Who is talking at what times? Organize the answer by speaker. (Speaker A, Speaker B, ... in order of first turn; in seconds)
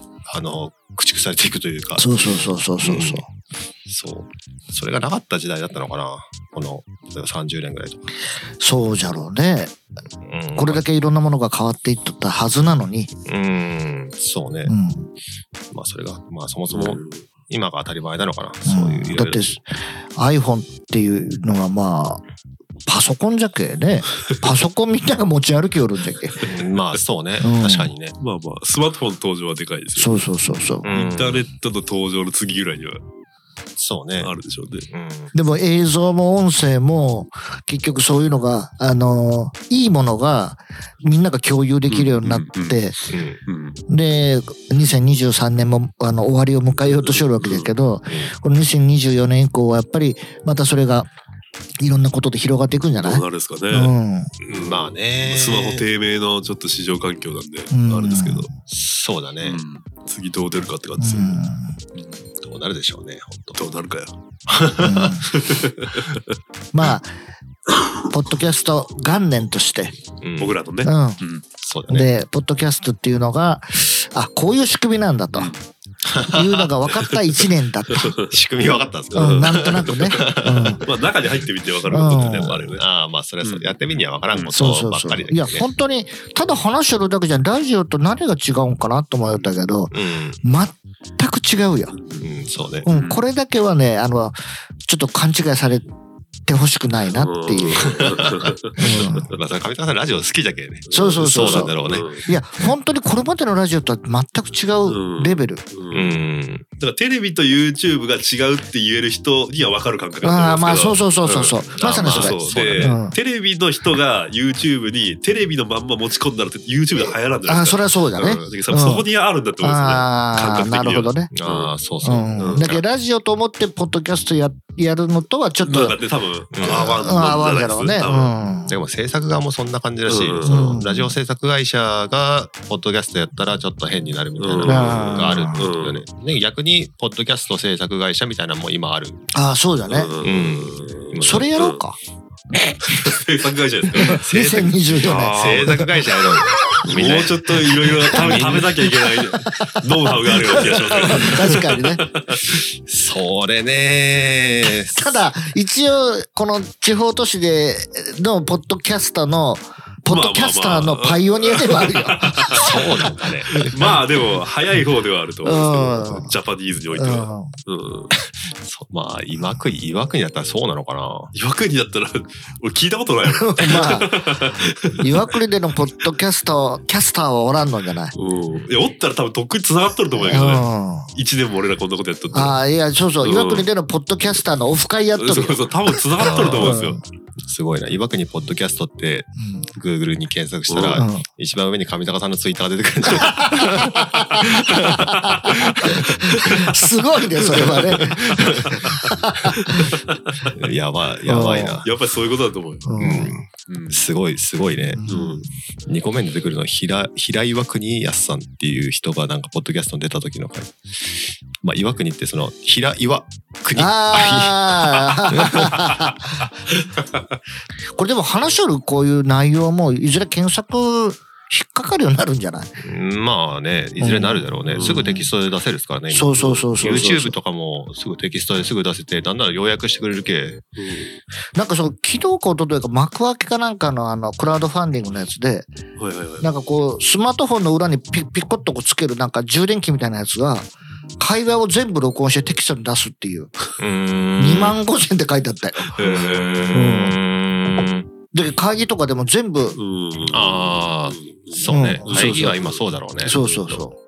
Speaker A: 0.2-3.2, 3.9-8.0, 10.2-10.8, 13.3-14.7, 15.7-19.4, 26.4-28.1, 30.8-31.5, 33.8-34.3, 34.9-35.3, 43.1-43.4, 54.4-55.9, 58.7-59.6, 62.4-63.6, 64.5-65.1, 70.2-70.6, 71.6-72.1, 78.2-80.8, 82.2-85.7, 89.9-90.4, 92.2-92.9, 98.4-102.1, 105.9-106.6, 111.8-113.0, 121.3-122.8, 126.5-127.1, 128.7-139.2, 140.2-141.5, 144.0-147.5, 148.1-148.8, 151.0-151.3, 152.8-155.2, 162.5-163.7, 168.6-171.3, 186.2-186.8, 187.4-195.0, 195.6-196.0, 197.6-198.8, 200.5-201.9, 203.0-205.0, 205.8-215.8, 222.8-230.6, 243.8-244.8, 245.9-248.1, 250.3-253.8
Speaker B: 2.0-3.3, 8.6-9.7, 10.6-13.1, 14.7-15.1, 18.6-22.2, 22.9-26.4, 27.4-27.9, 29.9-30.9, 35.3-43.0, 43.9-51.1, 51.8-54.3, 57.7-58.5, 61.0-61.8, 64.8-65.2, 66.7-67.1, 68.1-69.9, 70.8-71.2, 71.9-75.5, 76.2-78.2, 79.1-80.8, 81.9-82.6, 84.5-91.9, 92.8-95.9, 96.5-98.1, 98.8-99.3, 100.9-105.6, 110.2-113.2, 117.0-121.3, 122.0-126.0, 126.6-128.8, 130.4-131.2, 134.6-135.7, 139.3-140.1, 141.2-142.0, 144.0-145.9, 148.0-148.5, 149.3-152.0, 154.9-162.7, 163.5-164.0, 165.4-166.3, 166.9-167.5, 173.4-174.2, 175.0-178.1, 180.2-181.1, 182.3-185.7, 186.2-187.0, 189.3-189.7, 190.9-191.2, 193.2-199.9, 201.2-201.8, 202.8-203.4, 204.9-205.4, 213.8-216.4, 217.9-222.8, 224.0-225.3, 226.1-227.3, 231.6-235.7, 236.4-243.5, 244.4-246.0, 246.7-247.2, 248.3-249.8, 251.7-252.6, 253.2-254.0
Speaker C: 16.7-17.2, 26.4-27.0, 28.2-33.0, 34.2-34.9, 41.9-42.8, 43.5-43.8, 47.0-47.7, 53.0-53.9, 54.5-58.5, 59.4-61.4, 61.9-62.2, 63.5-64.1, 65.2-66.2, 70.4-71.4, 75.3-75.6, 77.9-78.2, 79.1-80.2, 80.8-82.8, 83.4-83.8, 91.9-92.3, 92.8-93.2, 97.1-99.3, 100.9-102.3, 104.8-106.2, 106.8-121.7, 122.4-122.7, 125.6-128.4, 130.1-130.6, 134.4-136.0, 139.9-141.8, 142.8-144.2, 145.0-145.9, 146.8-152.6, 160.1-162.9, 163.6-168.1, 171.3-175.2, 178.1-182.6, 183.2-183.7, 185.1-187.0, 190.7-191.0, 196.2-196.7, 197.6-199.0, 199.6-200.5, 201.8-202.9, 203.7-204.0, 205.1-205.4, 224.7-225.0, 226.4-227.1, 230.8-231.1, 236.0-236.5, 245.9-246.9, 249.8-252.8